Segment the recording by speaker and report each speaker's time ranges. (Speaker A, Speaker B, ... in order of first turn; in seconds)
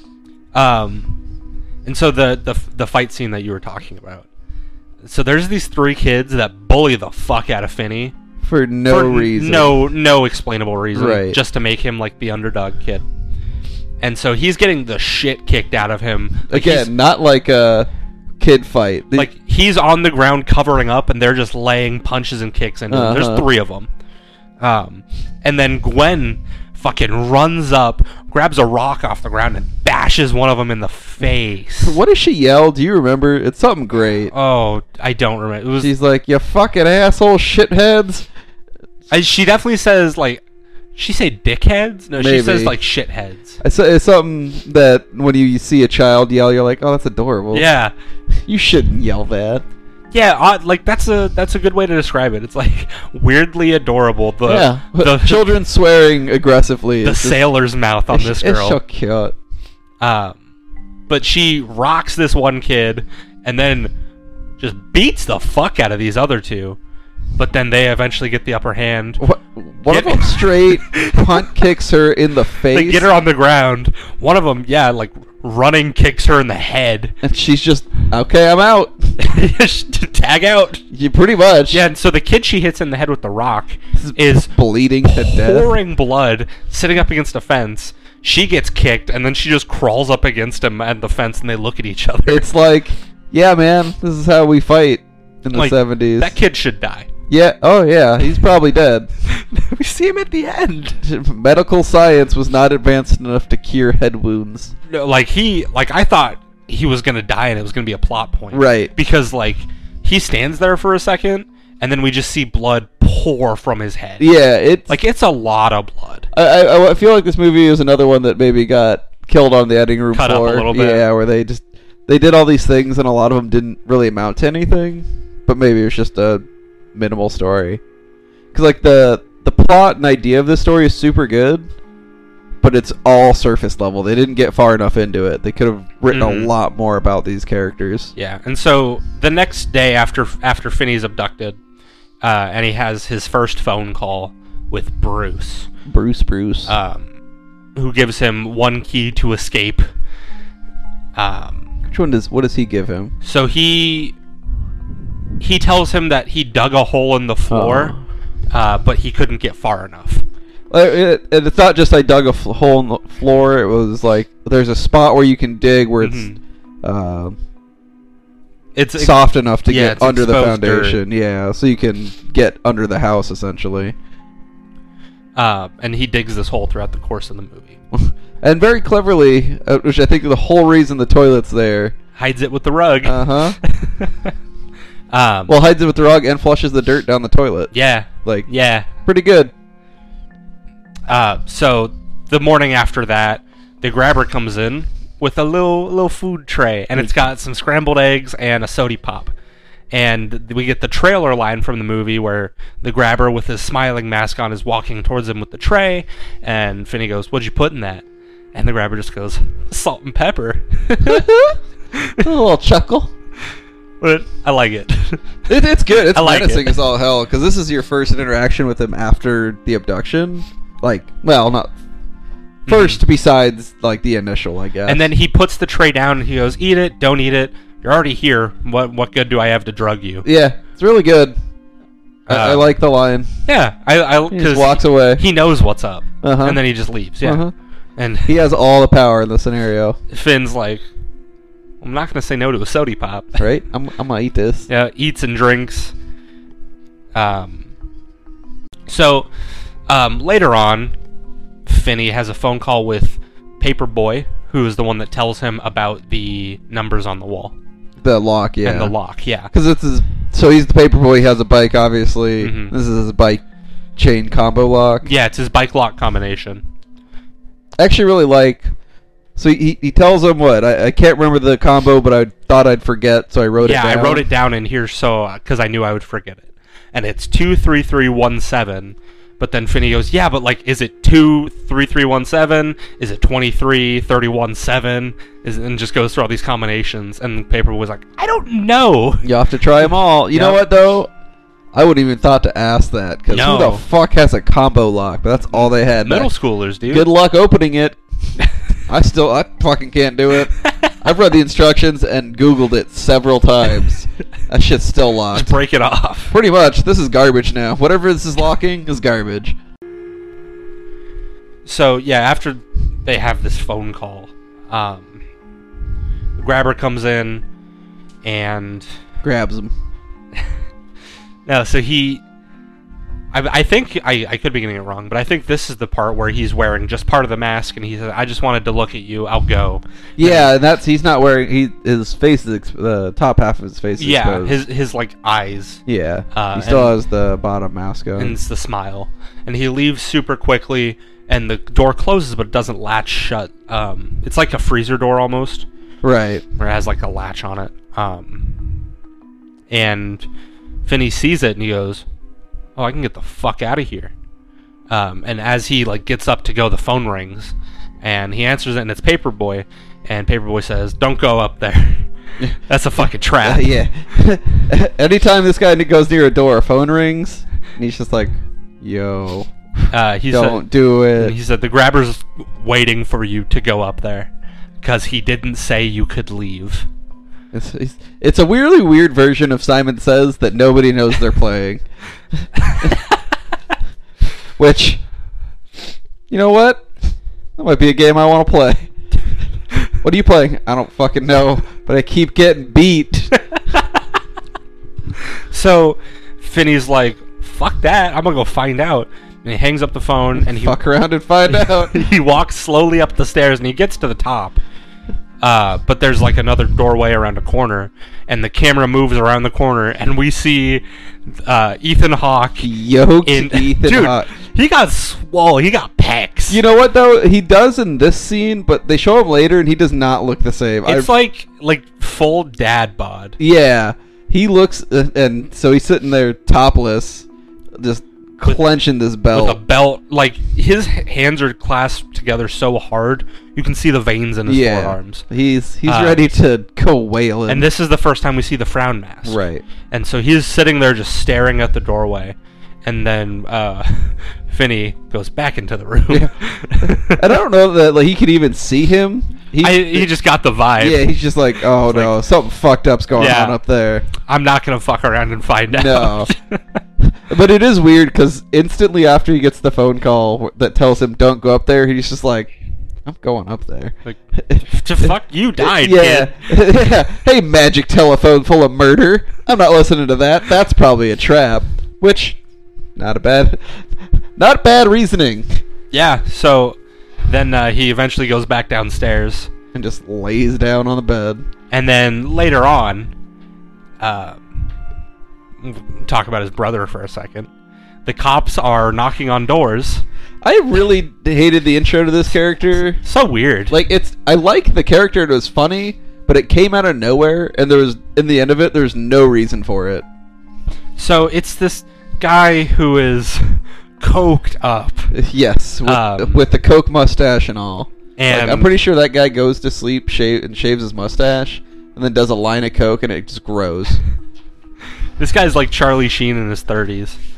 Speaker A: 0.5-1.1, 1.8-4.3, 5.0-8.1, 8.9-13.0, 14.0-16.9, 19.1-23.9, 24.6-32.0, 34.2-35.9, 39.1-40.4, 40.9-43.6, 47.5-47.9, 50.1-55.5, 57.0-58.8, 60.0-60.4, 61.1-63.9, 64.6-66.8, 67.4-69.2, 69.9-71.5, 72.7-77.2, 79.2-80.8, 81.7-84.5, 85.0-92.5, 95.5-97.1, 99.3-101.0, 104.9-114.3, 114.9-116.3, 120.1-121.1, 136.1-136.5, 138.2-141.6, 142.2-145.7, 146.7-147.1, 147.8-149.9, 151.2-151.7, 153.2-154.1, 155.4-157.9, 158.5-160.2, 166.0-166.4, 168.8-171.0, 175.3-177.8, 182.2-184.3, 185.1-185.5, 187.7-188.9, 191.1-199.3, 199.9-211.3, 211.9-212.3, 214.0-215.4, 215.9-216.8, 222.7-223.0, 224.9-230.3, 232.3-232.7, 233.5-237.4, 238.0-238.3, 240.1-240.8, 241.8-243.4, 244.7-245.9, 247.1-247.7, 248.9-249.3, 249.9-250.9, 251.7-257.5, 258.6-259.5, 262.4-262.7, 265.0-266.6, 273.6-289.3, 289.8-290.6, 293.3-293.8, 295.5-297.1, 300.6-300.9, 305.3-306.3, 311.6-315.2, 316.4-317.4, 318.2-318.9, 321.4-322.2, 323.3-330.5, 334.0-336.9, 338.2-345.6, 346.6-348.8, 349.7-350.3, 350.8-352.0, 352.8-354.1, 354.9-362.1, 362.7-363.7, 369.9-374.3, 374.8-376.9, 382.6-382.9, 395.5-400.8, 401.5-404.6, 405.4-412.7, 413.2-416.6, 420.8-423.4, 429.3-435.2, 435.9-436.2, 437.5-447.3, 449.6-451.1, 451.8-452.1, 453.1-453.6, 454.2-456.8, 464.0-466.3, 475.9-479.5, 481.7-483.1, 484.0-484.5, 485.6-487.5, 488.0-490.0, 493.0-493.8, 501.0-505.1, 505.8-506.4, 508.2-508.7, 515.2-517.2
Speaker B: 8.4-9.7, 10.9-11.4, 16.5-17.9, 18.4-19.3, 22.9-23.5, 31.8-34.3, 35.8-38.3, 42.2-42.7, 43.6-47.7, 48.4-49.6, 54.4-57.4, 58.1-59.4, 69.2-73.1, 77.2-79.2, 80.9-81.8, 84.0-85.7, 92.3-96.3, 97.3-99.1, 101.0-104.7, 108.5-108.9, 114.2-115.0, 116.3-126.4, 126.9-127.8, 128.5-131.7, 132.6-138.1, 145.8-146.7, 151.9-153.1, 157.5-158.0, 160.7-166.3, 166.8-167.4, 169.0-173.9, 177.9-181.9, 183.0-183.6, 185.5-187.7, 189.1-189.5, 211.0-211.6, 212.2-213.1, 215.5-221.7, 222.7-225.0, 230.2-231.3, 232.2-233.3, 234.3-235.2, 236.2-236.6, 237.2-237.5, 238.2-240.0, 243.4-244.7, 258.0-258.9, 259.5-263.4, 263.9-265.1, 267.8-268.7, 269.4-274.2, 289.2-291.1, 291.7-296.3, 296.9-298.0, 298.9-305.5, 306.3-309.6, 319.2-319.7, 330.2-334.6, 335.9-338.4, 346.0-346.4, 362.4-371.4, 377.5-381.8, 382.7-383.0, 384.6-385.0, 386.3-386.9, 387.6-388.9, 390.0-393.4, 400.3-402.0, 412.6-414.3, 416.5-421.1, 423.4-429.6, 434.4-437.6, 439.2-439.6, 446.1-450.1, 450.8-454.1, 455.7-456.3, 457.0-462.5, 463.0-472.4, 472.9-475.6, 479.7-481.5, 490.4-493.0, 493.7-500.0, 505.1-514.0